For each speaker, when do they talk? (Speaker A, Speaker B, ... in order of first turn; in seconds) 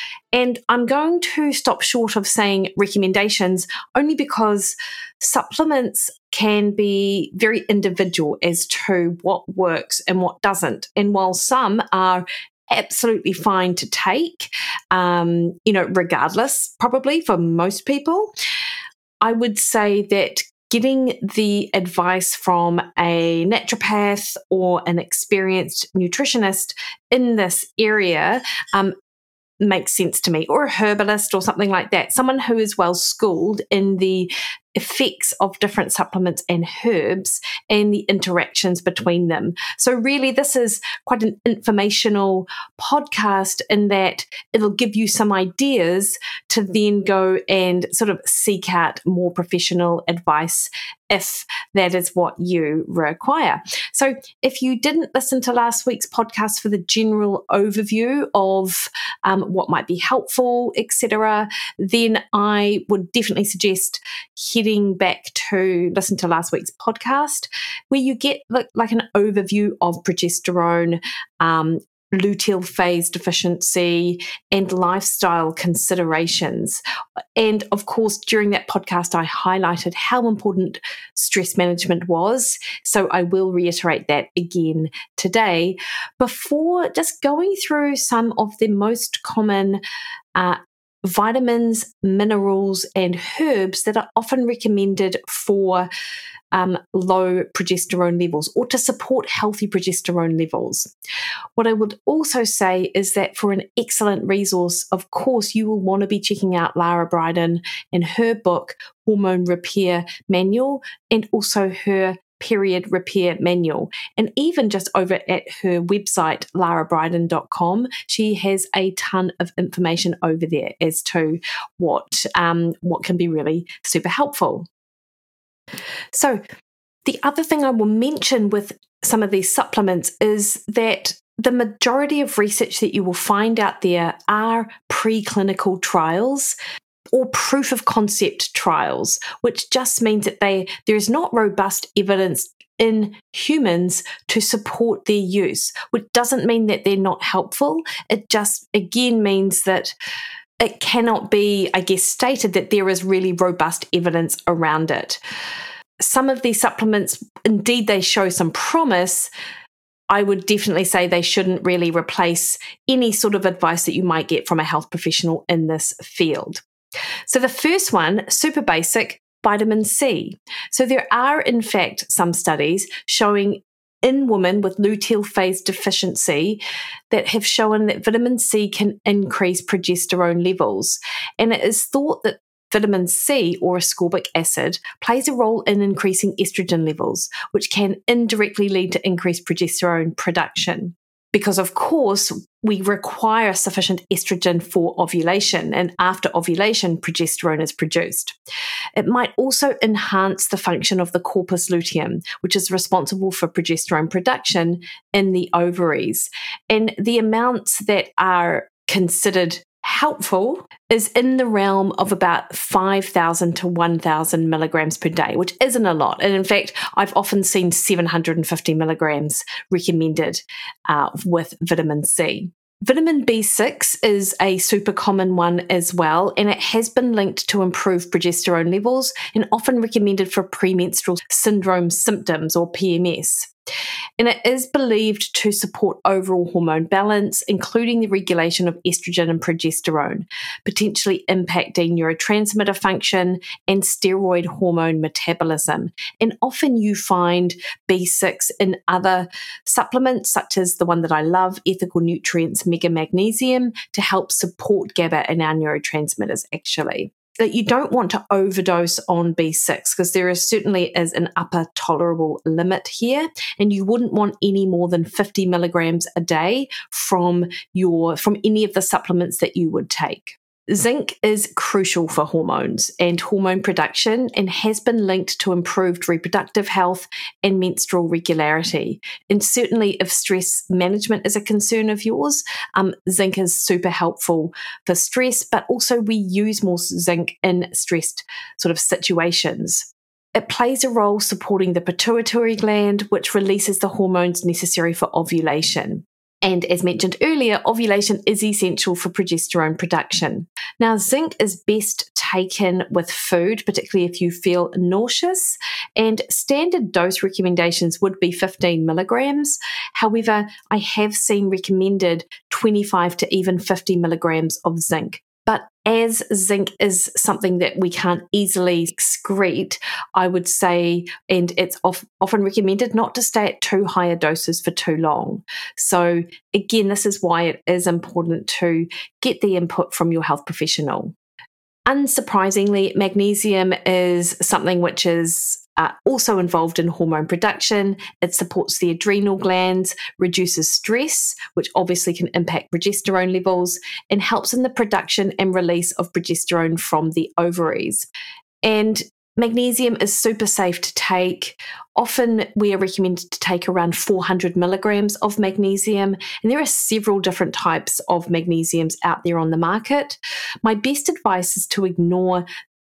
Speaker A: 0.3-18.3, 19.2-28.9, 29.6-76.8, 77.4-89.8, 90.3-95.9, 96.5-100.9, 101.6-124.7, 126.1-126.4, 127.0-136.6, 137.1-149.9, 150.6-155.2, 156.0-159.3, 160.1-166.6, 167.3-198.3, 199.0-233.5, 234.2-331.1, 331.9-348.1, 348.6-362.4